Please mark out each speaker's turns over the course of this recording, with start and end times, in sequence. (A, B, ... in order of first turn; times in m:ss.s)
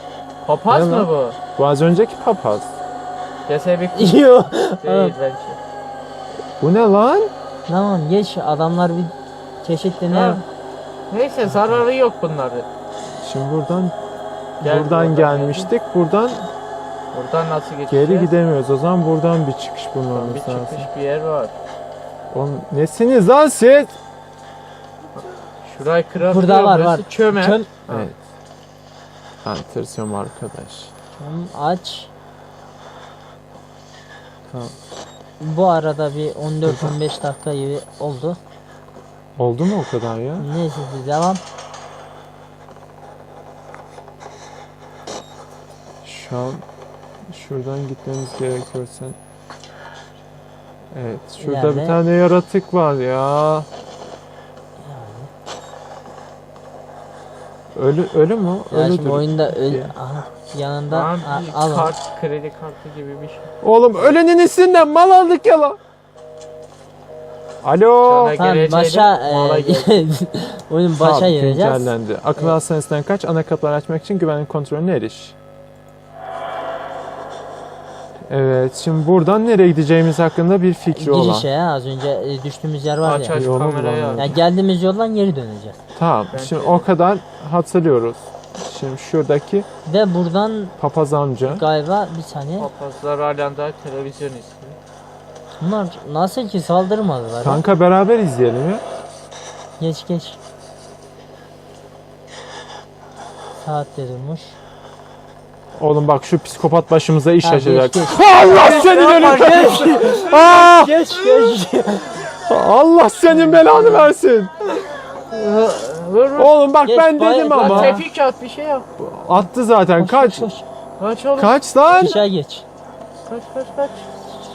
0:00.4-0:01.4 A
0:00.7-0:02.7 B
0:03.5-0:04.3 A
0:04.0-0:05.1 C
0:04.8-0:05.6 A
0:06.6-0:07.3 B
0:07.7-0:10.4 C
0:10.1-0:10.4 A
0:11.1-0:12.7 A
0:11.5-0:11.8 B
0:13.2-0:13.9 B
0:14.6-0:16.5 B
0:14.6-0:15.7 A
0:17.1-0:18.3 A
0:17.9-0:20.9 B
0:20.1-0:21.5 A
0:22.3-0:24.0 B
0:25.2-0:28.1 A
0:26.2-0:27.7 C
0:27.9-0:28.2 B
0:29.4-0:30.9 B
0:31.1-0:32.1 C
0:34.5-0:34.7 B
0:35.4-0:38.4 C
0:36.6-0:37.0 B
0:39.4-0:40.5 B
0:40.4-0:41.4 C
0:46.0-0:46.6 B
0:47.3-0:49.2 B
0:50.9-0:53.7 B
0:51.4-0:52.0 C
0:54.8-0:55.3 C
0:57.7-0:59.9 B
0:58.7-1:01.9 C
1:00.9-1:03.5 A
1:03.6-1:05.8 B
1:07.6-1:08.4 B
1:08.0-1:10.0 A
1:08.3-1:12.6 C
1:11.0-1:15.4 B
1:18.3-1:21.5 B
1:20.9-1:23.4 C
1:23.0-1:24.4 A
1:23.3-1:24.4 B
1:24.2-1:25.8 C
1:25.9-1:29.6 B
1:26.3-1:26.9 A
1:29.8-1:30.8 C
1:30.8-1:31.6 B
1:31.4-1:32.7 C
1:32.6-1:34.8 A
1:35.6-1:37.6 C
1:37.4-1:38.8 B
1:39.8-1:40.4 C
1:43.6-1:44.6 C
1:45.7-1:51.0 B
1:47.4-1:52.3 C
1:48.6-1:50.1 A
1:52.5-1:54.5 B
1:53.3-1:54.1 C
1:55.3-1:56.5 A
1:56.4-1:58.0 B
1:56.8-1:58.0 C
1:57.5-1:58.8 A
1:59.0-2:00.5 B
2:00.0-2:00.6 C
2:01.0-2:01.6 A
2:01.4-2:02.2 B
2:01.9-2:02.6 C
2:03.3-2:04.1 A